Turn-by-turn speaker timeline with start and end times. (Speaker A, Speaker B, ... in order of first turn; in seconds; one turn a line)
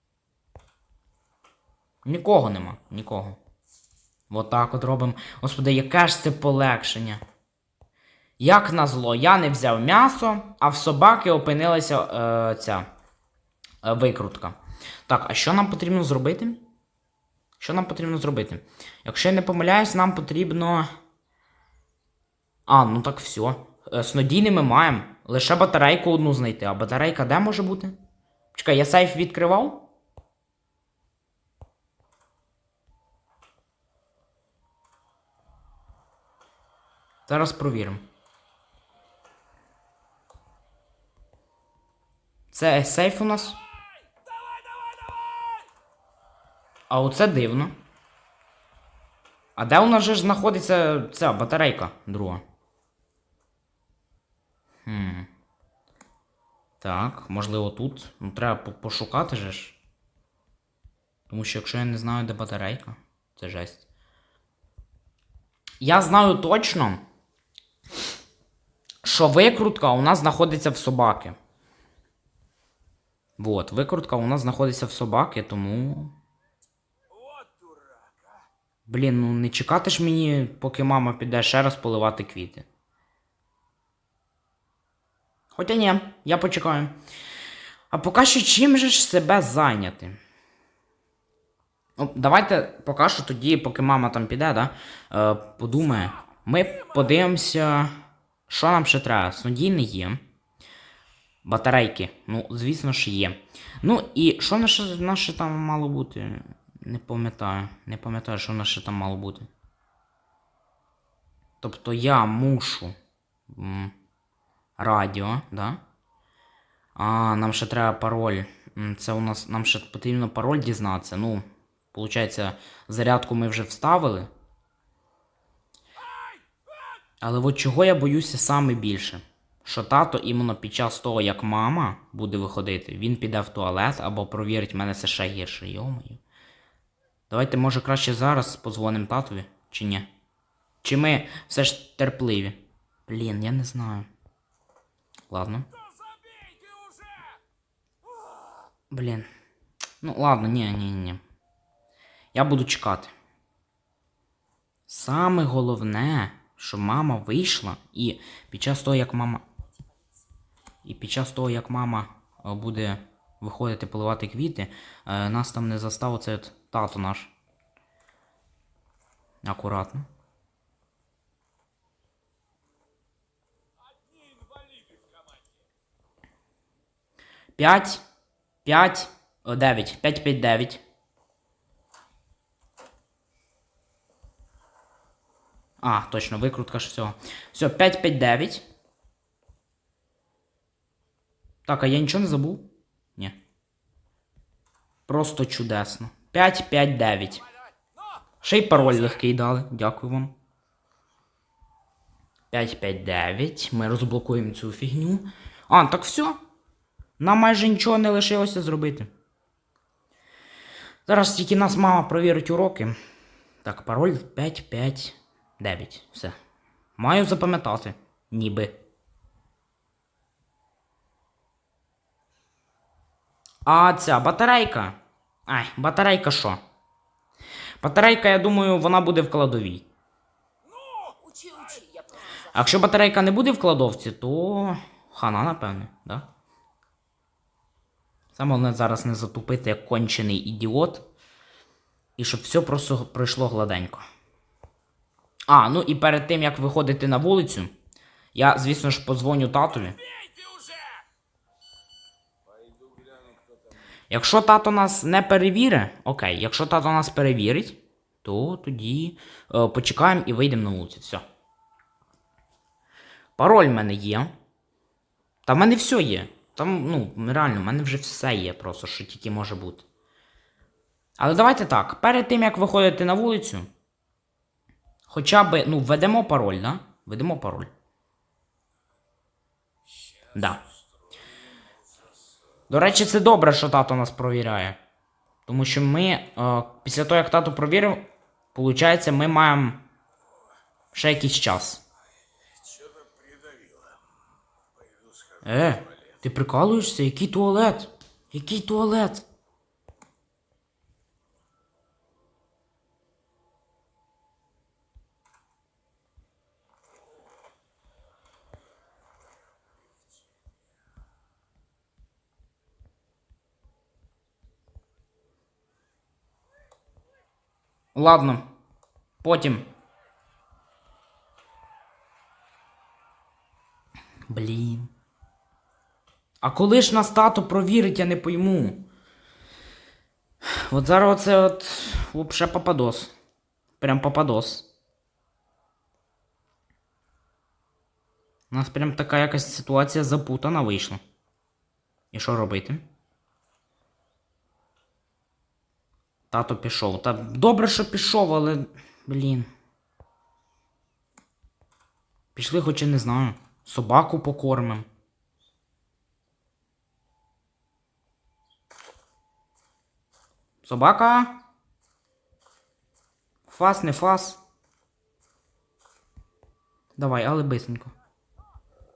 Speaker A: 2.0-3.4
Speaker A: 4.3-7.2
Speaker A: 8.4-12.9
Speaker A: 13.8-14.6
Speaker A: 15.1-16.6
Speaker A: 17.6-20.9
Speaker A: 22.7-28.0
Speaker A: 28.5-29.9
Speaker A: 37.3-38.0
Speaker A: 42.5-43.6
Speaker B: 43.7-45.7
Speaker A: 46.9-47.8
Speaker A: 49.6-52.4
Speaker A: 54.9-55.3
Speaker A: 56.8-59.8
Speaker A: 61.3-63.9
Speaker A: 65.8-67.0
Speaker A: 69.0-71.4
Speaker A: 73.4-76.1
Speaker B: 77.1-78.5
Speaker A: 78.9-82.7
Speaker A: 85.5-87.0
Speaker A: 87.9-90.2
Speaker A: 92.0-97.9
Speaker A: 98.5-100.2
Speaker A: 101.5-109.5
Speaker A: 111.6-113.0
Speaker A: 113.5-113.9
Speaker A: 114.8-115.8
Speaker A: 117.0-124.3
Speaker B: 126.0-126.6
Speaker A: 127.2-136.2
Speaker A: 137.3-140.1
Speaker A: 140.8-144.1
Speaker A: 145.3-145.7
Speaker B: 145.7-147.4
Speaker B: 148.1-148.7
Speaker A: 148.9-149.3
Speaker A: 150.0-151.2
Speaker A: 152.3-153.1
Speaker A: 154.9-159.4
Speaker A: 160.8-167.3
Speaker A: 169.4-170.1
Speaker B: 173.8-175.7
Speaker A: 177.6-178.0
Speaker A: 178.7-180.8
Speaker A: 185.8-188.7
Speaker A: 191.7-193.4
Speaker A: 195.1-197.4
Speaker B: 197.8-198.2
Speaker A: 198.4-200.3
Speaker B: 198.9-199.2
Speaker A: 202.5-206.4
Speaker A: 207.2-209.1
Speaker A: 211.1-213.0
Speaker A: 213.6-216.4
Speaker A: 217.0-218.8
Speaker A: 223.7-226.6
Speaker A: 227.8-229.9
Speaker B: 230.6-232.7
Speaker A: 232.5-236.3
Speaker A: 238.3-241.1
Speaker A: 242.2-244.1
Speaker A: 245.5-247.7
Speaker A: 248.3-250.0
Speaker B: 249.9-251.1
Speaker B: 252.4-254.0
Speaker A: 254.1-261.2
Speaker A: 263.4-264.3
Speaker A: 265.5-269.9
Speaker A: 271.2-273.7
Speaker A: 275.1-277.7
Speaker B: 279.9-282.4
Speaker A: 280.4-280.6
Speaker A: 282.7-284.8
Speaker A: 285.5-289.8
Speaker A: 290.9-291.8
Speaker B: 292.4-296.2
Speaker A: 295.4-299.3
Speaker A: 317.9-318.5
Speaker A: 319.2-319.7
Speaker A: 324.3-324.9
Speaker A: 326.4-328.9
Speaker A: 330.4-333.1
Speaker A: 333.8-334.7
Speaker A: 338.5-341.0
Speaker A: 342.1-342.9
Speaker A: 346.3-349.5
Speaker A: 352.4-354.9
Speaker A: 360.6-361.4
Speaker A: 363.5-364.4
Speaker A: 367.0-367.9